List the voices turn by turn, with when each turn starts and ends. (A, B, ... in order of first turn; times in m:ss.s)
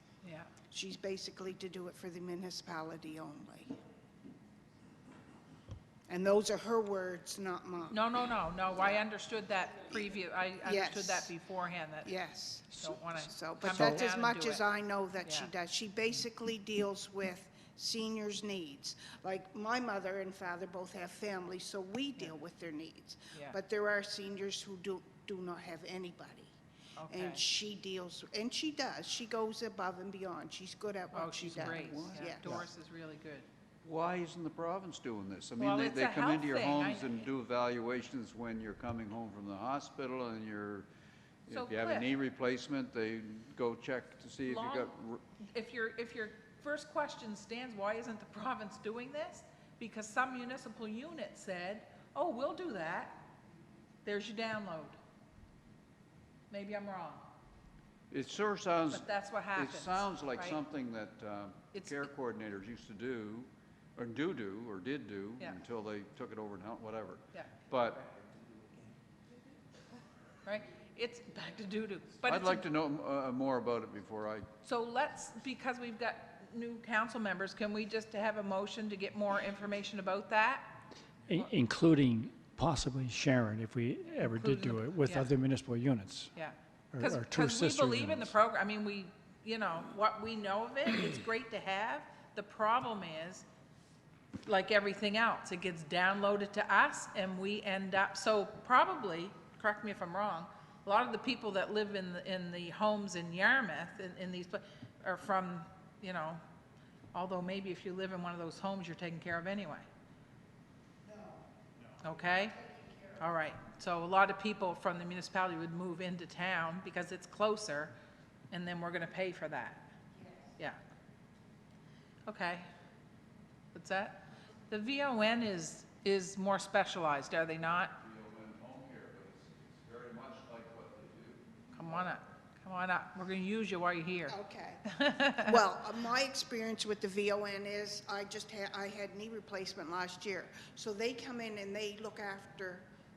0:00.2-0:00.5 A
0:00.7-0:03.8 B
0:06.1-0:08.0 B
0:07.9-0:12.1 A
0:08.7-0:09.0 B
0:09.9-0:11.3 B
0:12.0-0:26.5 B
0:12.7-0:14.6 A
0:13.7-0:14.0 C
0:15.2-0:15.5 A
0:27.0-0:27.4 A
0:27.1-0:32.6 B
0:31.1-0:33.5 A
0:31.7-0:32.5 D
0:33.8-0:40.9 D
0:35.6-0:37.3 A
0:41.5-0:45.2 D
0:41.5-0:42.1 A
0:44.4-0:53.3 A
0:54.0-0:55.0 A
0:56.5-0:57.2 A
0:58.1-1:08.1 D
0:58.9-1:00.6 A
1:01.7-1:02.1 A
1:10.4-1:12.7 A
1:12.2-1:14.5 D
1:14.6-1:20.7 A
1:21.3-1:26.3 C
1:24.2-1:25.3 A
1:26.4-1:33.5 A
1:26.9-1:28.4 C
1:34.4-1:46.4 A
1:47.1-1:49.9 A
1:51.1-1:51.4 B
1:52.0-1:52.6 A
1:52.6-1:53.1 B
1:53.2-1:58.0 A
1:58.5-1:59.9 A
2:02.3-2:02.7 A
2:03.7-2:08.0 A
2:08.0-2:11.4 D
2:11.8-2:14.4 A
2:14.3-2:22.9 B
2:14.9-2:15.6 A